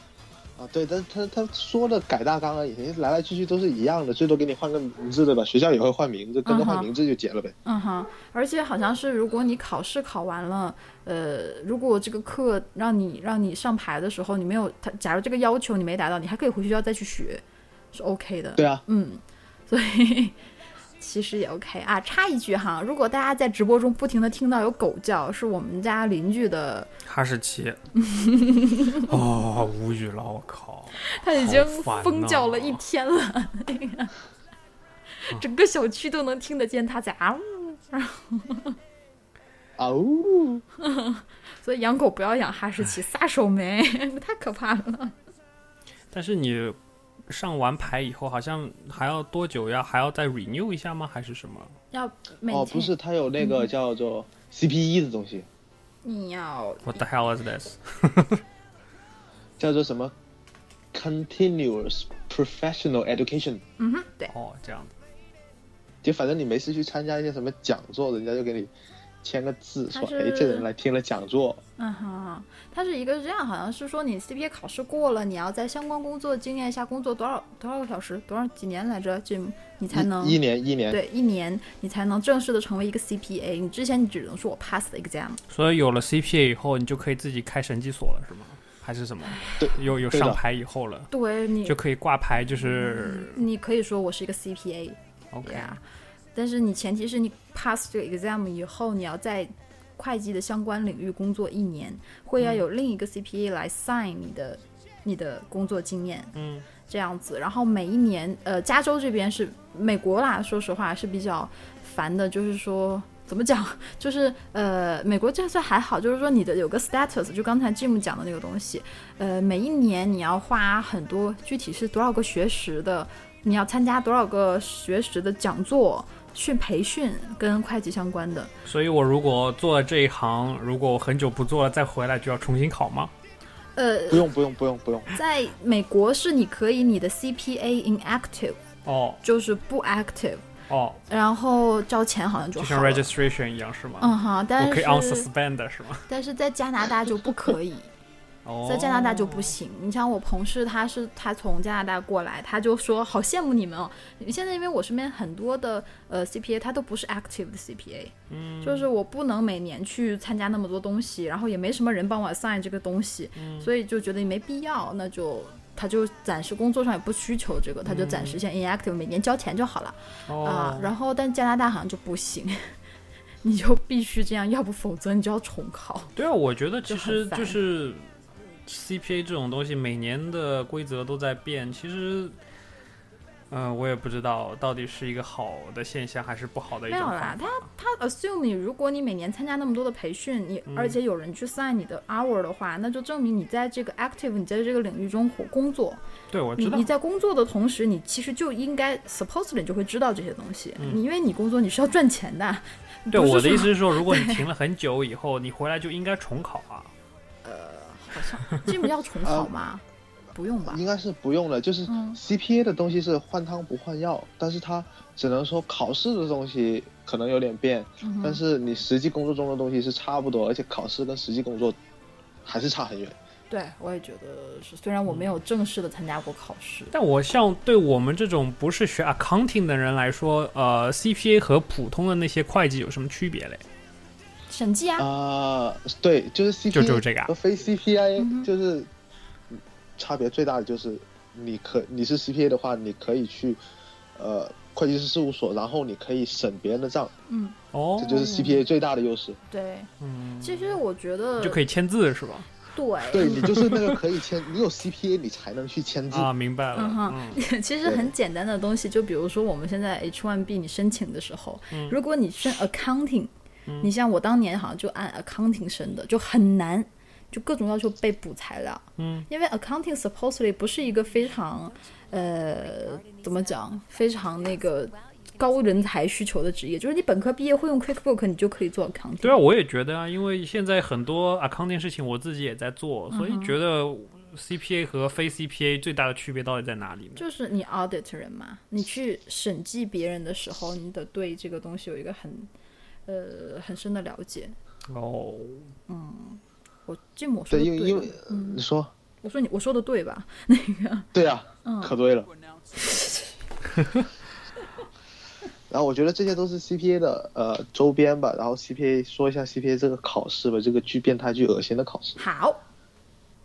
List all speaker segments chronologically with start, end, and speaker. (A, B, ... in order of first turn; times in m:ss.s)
0:00.6-0:07.5 A
0:06.4-0:06.9 B
0:07.6-0:17.4 B
0:17.9-0:20.4 B
0:18.6-0:18.8 A
0:21.0-0:26.9 B
0:27.0-0:27.8 C
0:28.0-0:29.1 B
0:29.0-0:32.8 C
0:31.0-0:34.1 B
0:35.2-0:38.8 B
0:39.8-0:40.6 A
0:40.8-0:45.1 B
0:46.1-0:46.8 C
0:47.3-0:51.7 C
0:51.9-0:53.7 B
0:52.5-0:55.5 A
0:56.0-0:57.0 B
0:56.9-0:58.4 C
0:59.6-1:00.1 A
1:00.9-1:03.6 A
1:03.8-1:04.3 B
1:04.3-1:04.9 C
1:06.0-1:08.7 A
1:09.2-1:11.6 A
1:09.9-1:10.7 B
1:11.8-1:25.4 B
1:19.9-1:21.0 A
1:25.5-1:31.1 C
1:29.3-1:29.7 B
1:29.6-1:30.4 A
1:31.1-1:31.8 B
1:31.6-1:33.4 C
1:32.6-1:35.8 B
1:35.3-1:35.8 C
1:36.4-2:08.5 B
1:42.4-1:42.6 C
1:46.3-1:46.7 C
2:08.6-2:13.1 C
2:13.8-2:14.3 B
2:14.1-2:15.1 A
2:15.1-2:18.6 B
2:18.8-2:19.2 C
2:19.2-2:20.4 B
2:20.7-2:21.0 C
2:21.1-2:23.1 B
2:22.6-2:26.1 C
2:24.0-2:25.3 B
2:26.1-2:27.9 B
2:28.4-2:29.6 C
2:28.6-2:52.7 B
2:38.3-2:38.9 C
2:43.4-2:43.7 C
2:47.8-2:48.4 C
2:50.3-2:50.9 C
2:53.4-2:56.1 B
2:56.2-2:58.1 C
2:56.9-2:57.6 B
2:58.6-3:02.4 C
3:03.5-3:07.6 C
3:06.9-3:16.0 B
3:10.7-3:11.0 C
3:16.3-3:16.9 C
3:16.6-3:24.4 B
3:23.1-3:26.9 C
3:27.4-3:29.8 B
3:29.2-3:29.5 A
3:30.3-3:30.8 B
3:30.6-3:41.8 A
3:31.9-3:32.2 B
3:38.0-3:38.4 B
3:42.4-3:43.2 A
3:43.5-3:46.9 B
3:46.9-3:53.6 C
3:54.5-3:55.1 B
3:55.0-3:58.9 A
3:56.7-3:57.3 C
3:58.2-3:58.5 B
3:59.5-4:03.6 A
4:04.2-4:07.1 A
4:07.3-4:07.6 B
4:07.7-4:08.3 C
4:08.0-4:09.4 A
4:08.3-4:08.5 B
4:09.5-4:09.9 B
4:10.0-4:10.8 C
4:10.4-4:11.6 B
4:11.4-4:12.5 C
4:12.7-4:13.5 B
4:13.1-4:16.3 A
4:13.4-4:14.0 C
4:16.1-4:17.4 C
4:16.7-4:39.4 B
4:17.8-4:18.1 A
4:21.7-4:22.0 C
4:29.0-4:29.3 C
4:39.2-4:47.2 C
4:43.1-4:43.6 B
4:47.2-4:52.5 B
4:53.1-4:54.6 B
4:54.9-4:55.7 C
4:55.9-4:58.6 B
4:57.5-4:58.9 A
4:59.2-5:01.1 B
5:01.1-5:02.3 A
5:01.6-5:02.0 B
5:02.8-5:03.4 B
5:05.7-5:12.2 A
5:12.2-5:12.6 B